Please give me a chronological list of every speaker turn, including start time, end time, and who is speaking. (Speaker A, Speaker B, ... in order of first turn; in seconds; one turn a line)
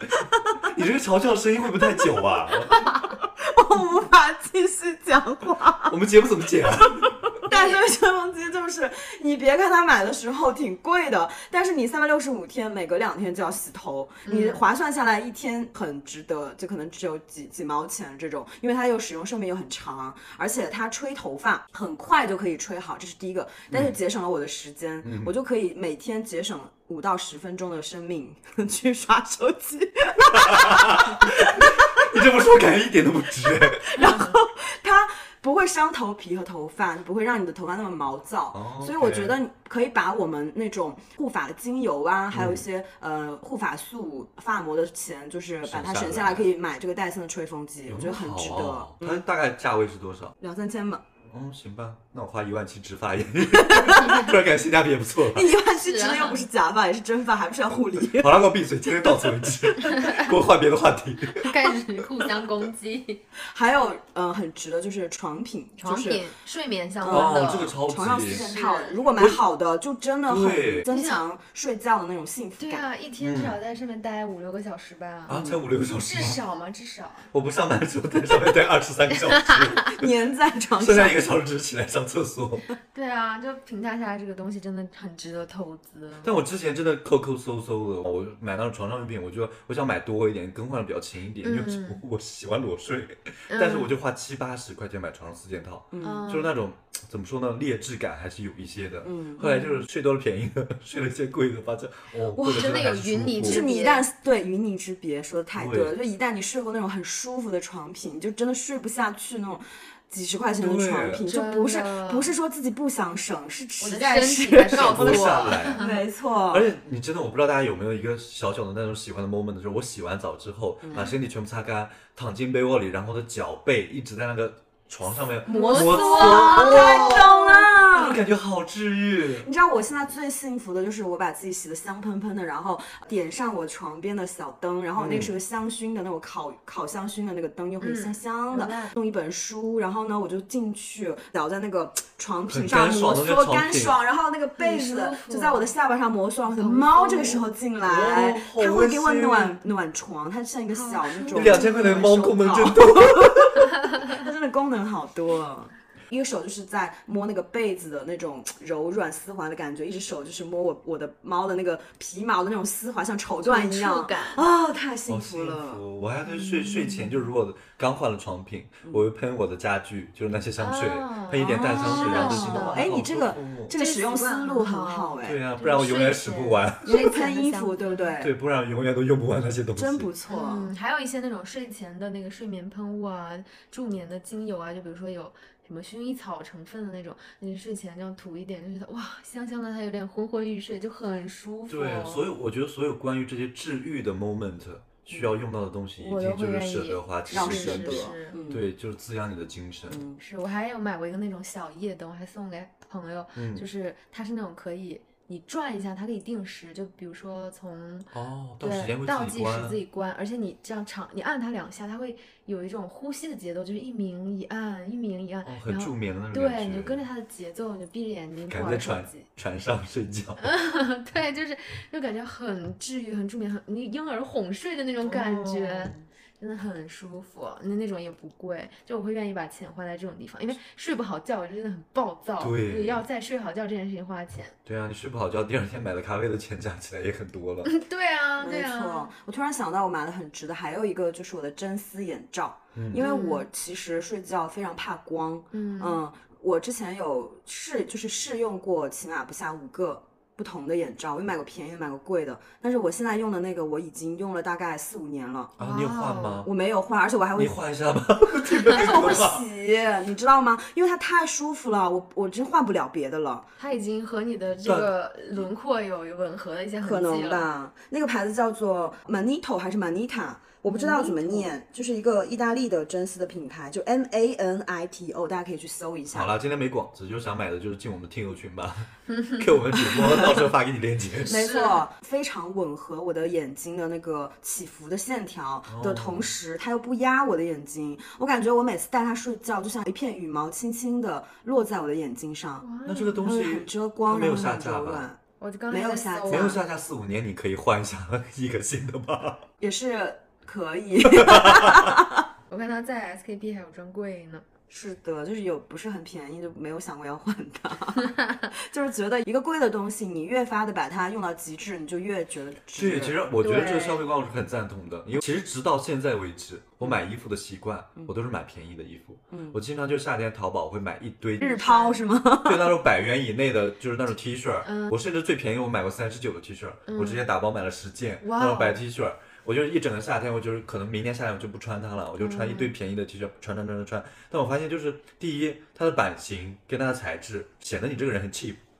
Speaker A: 0.2-2.9
Speaker B: 3.0-5.9
Speaker A: 5.8-7.2
Speaker B: 6.8-32.4
Speaker C: 7.5-7.8
Speaker C: 14.2-14.6
Speaker A: 25.0-25.3
Speaker A: 30.3-34.1
Speaker B: 33.8-49.2
Speaker C: 34.0-34.4
Speaker A: 38.5-39.4
Speaker A: 42.3-42.6
Speaker A: 45.6-46.5
Speaker A: 47.9-50.3
Speaker B: 50.4-51.0
Speaker A: 51.2-55.5
Speaker B: 53.6-54.3
Speaker B: 55.3-58.4
Speaker C: 55.6-56.4
Speaker A: 58.2-61.5
Speaker B: 59.2-60.0
Speaker C: 59.9-60.3
Speaker C: 61.3-63.2
Speaker B: 63.5-66.2
Speaker C: 65.8-69.0
Speaker B: 67.0-72.9
Speaker A: 67.1-68.5
Speaker A: 70.2-70.9
Speaker C: 70.9-71.2
Speaker C: 72.6-77.3
Speaker A: 73.2-73.6
Speaker A: 75.3-76.4
Speaker B: 75.3-75.6
Speaker A: 77.3-80.1
Speaker C: 79.3-79.6
Speaker B: 79.9-81.3
Speaker A: 80.8-82.7
Speaker C: 82.9-86.3
Speaker A: 86.2-103.7
Speaker C: 91.4-92.0
Speaker C: 93.5-93.9
Speaker B: 95.9-96.2
Speaker C: 96.0-96.5
Speaker B: 99.0-99.5
Speaker C: 99.4-99.8
Speaker C: 102.3-104.0
Speaker B: 103.4-116.7
Speaker A: 105.5-105.9
Speaker A: 110.6-111.2
Speaker C: 111.2-112.3
Speaker C: 113.8-116.0
Speaker A: 114.7-115.8
Speaker A: 116.5-129.5
Speaker B: 120.8-121.1
Speaker C: 125.5-127.6
Speaker B: 125.5-128.2
Speaker B: 129.4-165.8
Speaker A: 135.0-135.3
Speaker C: 137.8-138.9
Speaker A: 142.5-143.9
Speaker C: 144.6-145.7
Speaker C: 146.5-147.4
Speaker A: 147.8-149.6
Speaker C: 150.7-152.1
Speaker A: 151.3-153.7
Speaker C: 163.4-164.5
Speaker A: 165.1-173.7
Speaker C: 166.3-167.3
Speaker C: 170.6-172.9
Speaker B: 171.4-175.4
Speaker C: 173.7-178.1
Speaker A: 175.2-176.9
Speaker B: 176.8-178.3
Speaker A: 178.2-180.1
Speaker B: 179.8-180.7
Speaker C: 180.3-192.3
Speaker A: 191.7-200.0
Speaker C: 196.0-198.4
Speaker B: 197.3-198.7
Speaker B: 199.9-200.2
Speaker C: 200.2-208.1
Speaker A: 203.3-203.7
Speaker A: 208.1-209.8
Speaker C: 208.6-219.3
Speaker A: 215.4-217.0
Speaker A: 218.5-220.4
Speaker C: 220.4-234.5
Speaker A: 225.0-226.0
Speaker A: 232.4-233.0
Speaker A: 234.6-237.7
Speaker C: 237.6-239.1
Speaker B: 238.4-255.5
Speaker A: 242.7-243.0
Speaker C: 242.9-243.4
Speaker C: 245.5-246.0
Speaker A: 255.6-256.5
Speaker C: 255.6-256.4
Speaker B: 256.4-257.6
Speaker A: 257.3-259.4
Speaker B: 258.6-263.5
Speaker C: 263.6-267.4
Speaker A: 264.6-264.9
Speaker B: 266.8-276.3
Speaker C: 270.7-271.5
Speaker A: 276.1-281.5
Speaker C: 279.1-279.4
Speaker B: 280.0-280.3
Speaker B: 281.2-292.6
Speaker C: 281.3-281.8
Speaker A: 285.7-286.3
Speaker C: 292.6-293.4
Speaker A: 292.8-295.1
Speaker B: 293.2-295.2
Speaker C: 295.4-296.6
Speaker B: 295.7-296.6
Speaker A: 296.3-299.4
Speaker B: 299.6-302.2
Speaker A: 301.0-301.9
Speaker C: 302.5-304.4
Speaker B: 304.7-313.2
Speaker C: 308.0-308.4
Speaker A: 312.8-321.6
Speaker C: 313.4-314.0
Speaker B: 319.3-319.6
Speaker C: 321.4-322.0
Speaker B: 321.4-322.8
Speaker A: 322.4-338.6
Speaker C: 324.6-324.9
Speaker C: 326.9-327.2
Speaker C: 328.2-328.8
Speaker C: 332.2-332.7